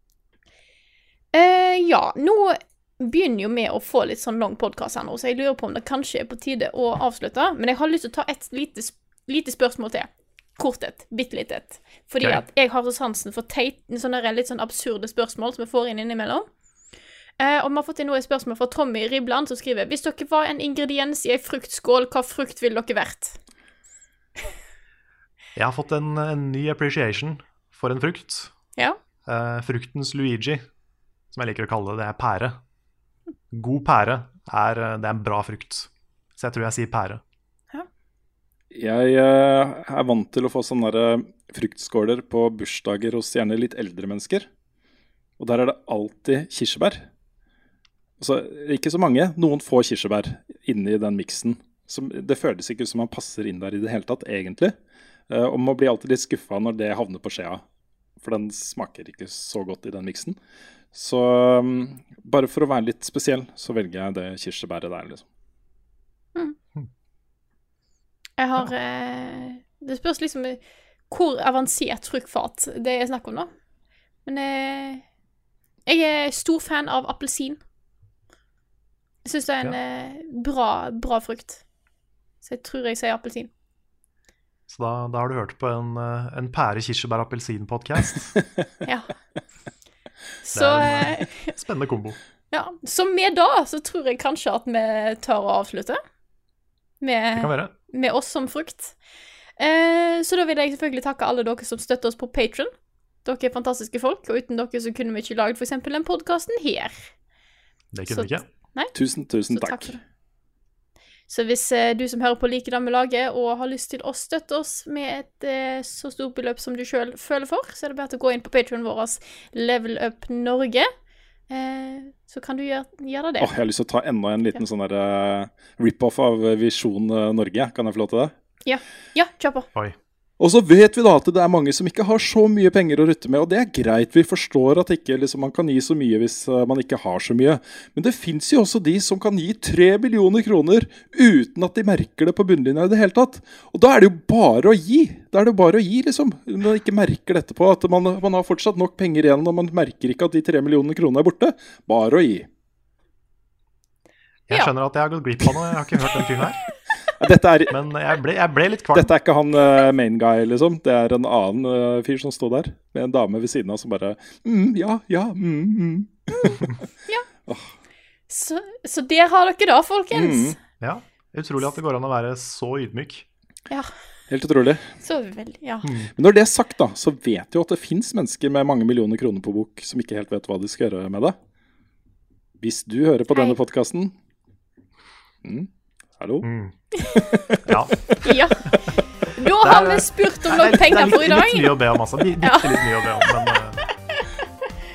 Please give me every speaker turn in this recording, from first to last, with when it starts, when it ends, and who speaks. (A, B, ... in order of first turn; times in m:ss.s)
0:01.3-0:16.5 A
0:17.4-0:23.4 A
0:25.6-0:28.5 B
0:29.3-0:30.6 B
0:31.3-0:32.6 B
0:33.5-0:37.2 B
0:38.7-0:44.5 C
0:45.4-0:47.1 C
0:48.2-0:54.7 C
0:55.3-0:57.6 C
0:58.2-1:00.4 C
1:00.9-1:05.3 C
1:08.4-1:13.5 A
1:14.3-1:15.0 A
1:15.9-1:17.6 A
1:19.2-1:21.6 A
1:22.4-1:23.5 A
1:24.7-1:28.4 B
1:28.9-1:29.1 A
1:30.4-1:31.5 A
1:30.5-1:32.2 B
1:32.5-1:36.0 A
1:37.0-1:39.0 A
1:37.4-1:37.7 B
1:39.6-1:42.7 A
1:43.2-1:47.1 A
1:47.9-1:48.5 B
1:48.1-1:48.9 A
1:48.9-1:49.9 C
1:49.5-1:50.0 A
1:51.3-2:00.9 A
2:01.5-2:03.5 A
2:03.4-2:08.3 C
2:08.6-2:09.7 A
2:10.4-2:32.5 C
2:34.5-2:36.6 B
2:37.1-2:37.8 C
2:37.7-2:39.1 B
2:38.9-2:46.8 C
2:46.4-2:47.3 A
2:47.5-2:47.7 C
2:48.3-2:50.6 A
2:50.1-2:50.6 C
2:50.8-2:53.3 B
2:54.3-2:55.0 C
2:55.0-2:55.9 A
2:55.8-2:56.1 B
2:56.2-3:01.4 C
3:02.6-3:04.2 C
3:05.4-3:06.5 C
3:06.4-3:06.8 B
3:07.0-3:07.6 A
3:07.1-3:07.6 C
3:07.6-3:09.0 B
3:08.2-3:14.4 A
3:09.6-3:13.8 B